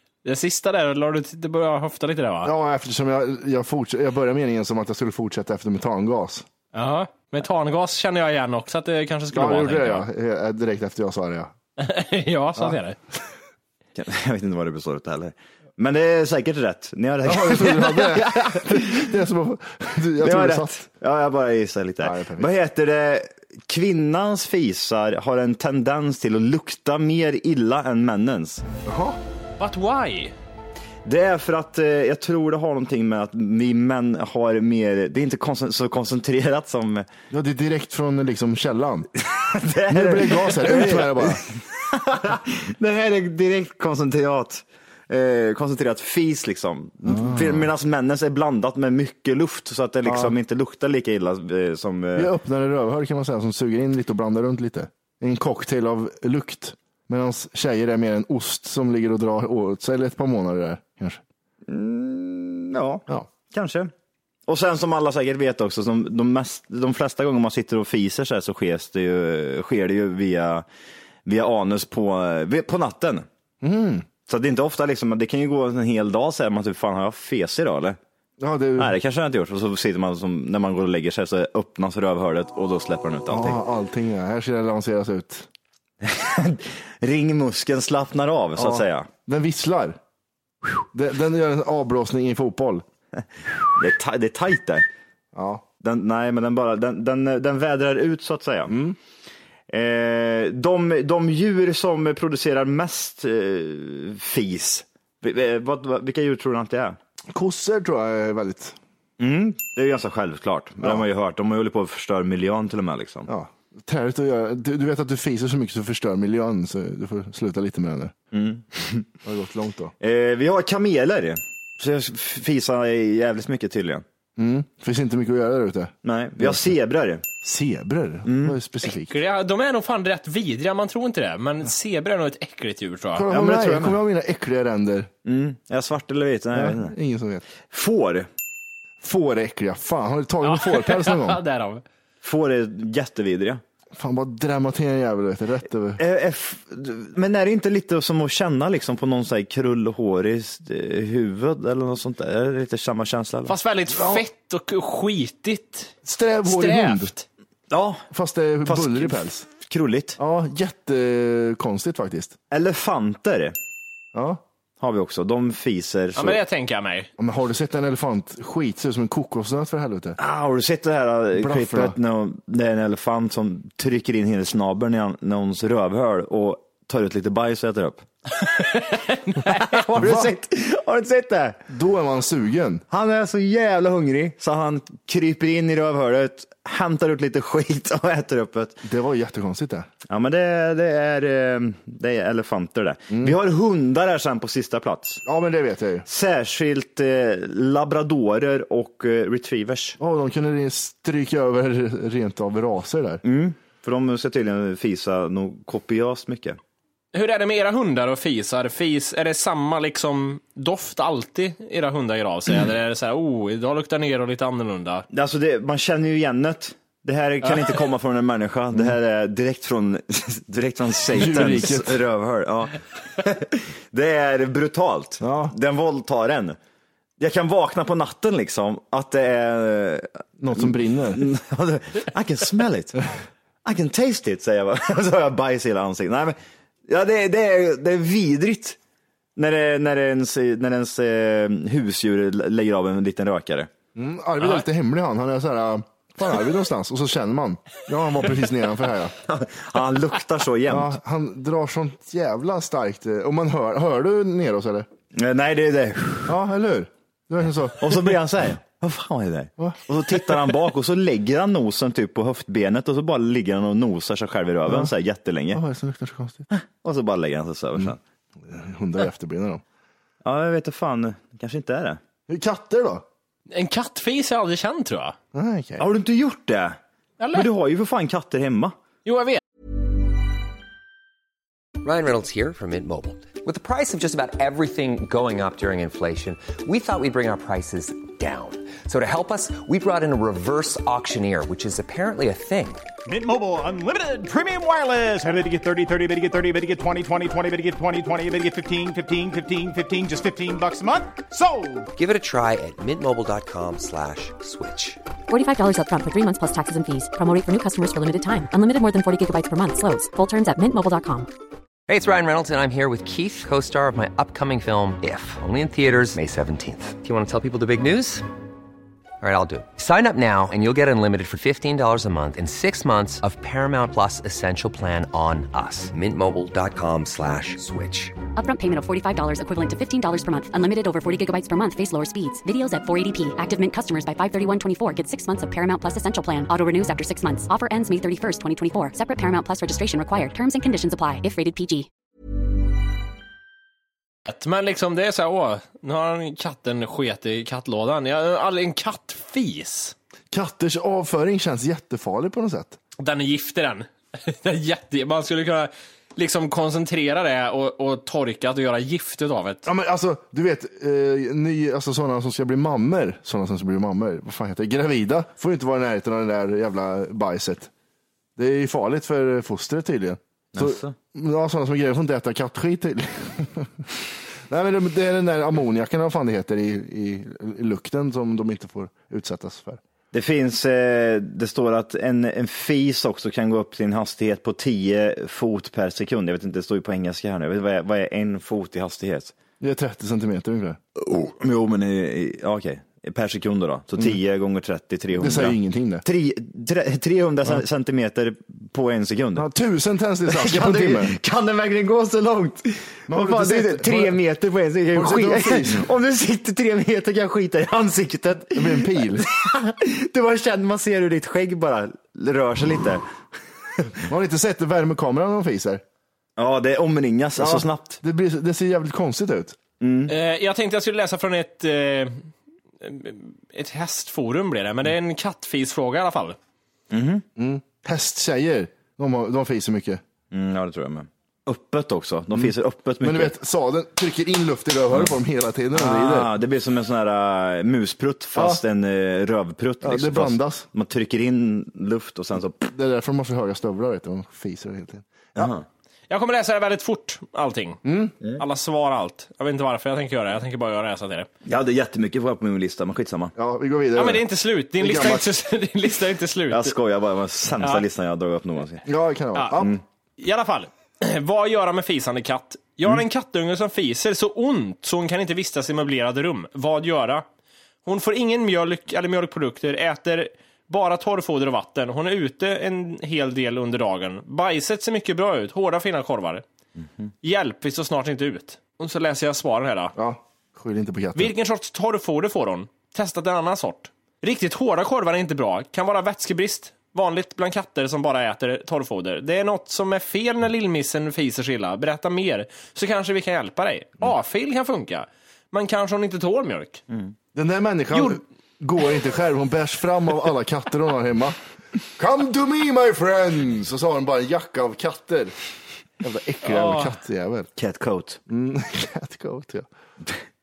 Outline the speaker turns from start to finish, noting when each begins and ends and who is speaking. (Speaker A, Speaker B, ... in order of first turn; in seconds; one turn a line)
Speaker A: 0.2-2.5
Speaker B: 2.4-6.5
Speaker A: 6.7-10.1
Speaker B: 9.3-11.5
Speaker A: 11.8-13.0
Speaker C: 13.9-19.0
Speaker B: 17.2-20.8
Speaker C: 20.2-28.6
Speaker B: 22.0-22.5
Speaker B: 28.8-29.2
Speaker A: 29.6-30.3
Speaker C: 31.0-37.1
Speaker B: 37.3-39.1
Speaker C: 39.2-52.3
Speaker B: 39.9-41.4
Speaker B: 47.0-47.7
Speaker B: 50.0-50.3
Speaker B: 52.1-61.2
Speaker C: 61.7-63.9
Speaker C: 64.5-70.7
Speaker C: 71.2-73.2
Speaker B: 73.6-74.1
Speaker C: 74.2-78.0
Speaker B: 78.4-78.9
Speaker C: 78.8-83.6
Speaker B: 83.3-85.5
Speaker C: 86.0-89.1
Speaker B: 88.6-90.0
Speaker B: 90.9-92.8
Speaker C: 93.7-94.8
Speaker B: 95.3-95.6
Speaker C: 95.8-98.7
Speaker B: 98.7-99.0
Speaker C: 99.7-107.0
Speaker B: 107.3-108.8
Speaker C: 109.2-113.3
Speaker B: 113.3-118.1
Speaker C: 118.3-119.1
Speaker B: 119.2-119.9
Speaker C: 120.0-124.0
Speaker B: 124.4-126.7
Speaker C: 126.0-127.2
Speaker B: 127.4-129.2
Speaker C: 128.2-128.6
Speaker A: 128.8-133.2
Speaker B: 133.2-135.1
Speaker C: 133.3-134.0
Speaker C: 135.2-136.9
Speaker B: 136.5-137.4
Speaker C: 137.6-138.3
Speaker B: 139.0-141.4
Speaker A: 140.4-141.8
Speaker C: 142.2-143.6
Speaker B: 143.9-146.0
Speaker C: 146.0-153.5
Speaker A: 153.5-155.9
Speaker B: 153.9-154.2
Speaker B: 156.0-157.1
Speaker A: 156.4-157.2
Speaker C: 157.7-158.0
Speaker B: 158.1-159.5
Speaker C: 158.7-160.2
Speaker B: 160.2-162.4
Speaker C: 162.5-163.6
Speaker B: 164.1-164.4
Speaker C: 164.8-166.4
Speaker A: 166.1-167.1
Speaker B: 167.2-170.2
Speaker C: 170.2-178.1
Speaker B: 171.4-171.9
Speaker A: 178.4-179.8
Speaker C: 179.5-181.6
Speaker B: 179.9-180.3
Speaker B: 181.7-182.8
Speaker C: 182.9-188.8
Speaker B: 188.8-189.9
Speaker C: 190.1-195.2
Speaker B: 195.2-196.0
Speaker C: 196.0-200.0
Speaker B: 200.0-203.2
Speaker C: 203.2-206.6
Speaker A: 207.1-215.1
Speaker C: 215.1-226.6
Speaker B: 221.1-222.0
Speaker B: 225.2-225.5
Speaker C: 227.2-233.0
Speaker B: 230.4-231.2
Speaker C: 233.6-236.3
Speaker C: 236.9-238.8
Speaker C: 239.3-243.7
Speaker B: 243.9-249.1
Speaker C: 249.2-250.9
Speaker B: 250.7-254.9
Speaker C: 255.2-256.3
Speaker B: 256.2-258.2
Speaker C: 257.8-265.6
Speaker B: 259.6-260.4
Speaker B: 265.5-266.4
Speaker C: 266.5-268.0
Speaker B: 267.8-269.6
Speaker C: 270.2-272.0
Speaker B: 272.3-273.0
Speaker A: 273.5-275.1
Speaker B: 275.3-275.9
Speaker C: 275.8-276.8
Speaker A: 277.2-277.5
Speaker C: 277.3-278.7
Speaker A: 279.1-279.4
Speaker D: 281.8-292.8
Speaker E: 293.1-301.9
Speaker D: 301.9-305.0
Speaker F: 305.3-311.3
Speaker D: 311.9-318.2
Speaker D: 319.2-328.1
Speaker F: 328.4-341.9
Speaker A: 344.2-349.9
Speaker B: 350.3-352.8
Speaker A: 353.0-359.6
Speaker B: 359.6-367.7
Speaker B: 368.4-373.9
Speaker C: 370.5-370.9
Speaker B: 374.5-379.8
Speaker C: 380.1-389.3
Speaker B: 389.6-390.8
Speaker C: 391.0-399.4
Speaker B: 395.1-396.0
Speaker B: 399.4-401.1
Speaker C: 400.3-413.0
Speaker B: 403.1-404.1
Speaker B: 404.9-405.9
Speaker B: 408.5-409.2
Speaker B: 414.1-415.8
Speaker C: 416.4-418.0
Speaker B: 417.4-419.6
Speaker C: 419.8-420.1
Speaker A: 420.1-422.3
Speaker A: 422.8-426.4
Speaker C: 426.9-427.2
Speaker B: 427.4-430.0
Speaker C: 430.3-433.3
Speaker B: 432.3-436.3
Speaker C: 435.7-442.6
Speaker B: 438.4-438.6
Speaker B: 439.8-440.7
Speaker B: 442.6-445.5
Speaker C: 445.4-445.6
Speaker A: 446.1-447.8
Speaker B: 447.8-448.1
Speaker A: 448.4-451.3
Speaker C: 451.4-453.3
Speaker B: 453.4-454.2
Speaker A: 454.0-456.7
Speaker B: 454.8-455.2
Speaker C: 456.5-458.8
Speaker B: 458.8-459.8
Speaker A: 459.3-459.6
Speaker A: 460.2-467.2
Speaker A: 467.8-476.4
Speaker A: 477.2-479.9
Speaker B: 479.9-481.3
Speaker A: 481.1-496.8
Speaker B: 497.3-501.4
Speaker A: 497.9-498.2
Speaker B: 502.0-505.3
Speaker B: 506.0-507.5
Speaker A: 506.4-506.9
Speaker C: 507.6-508.2
Speaker B: 508.3-509.7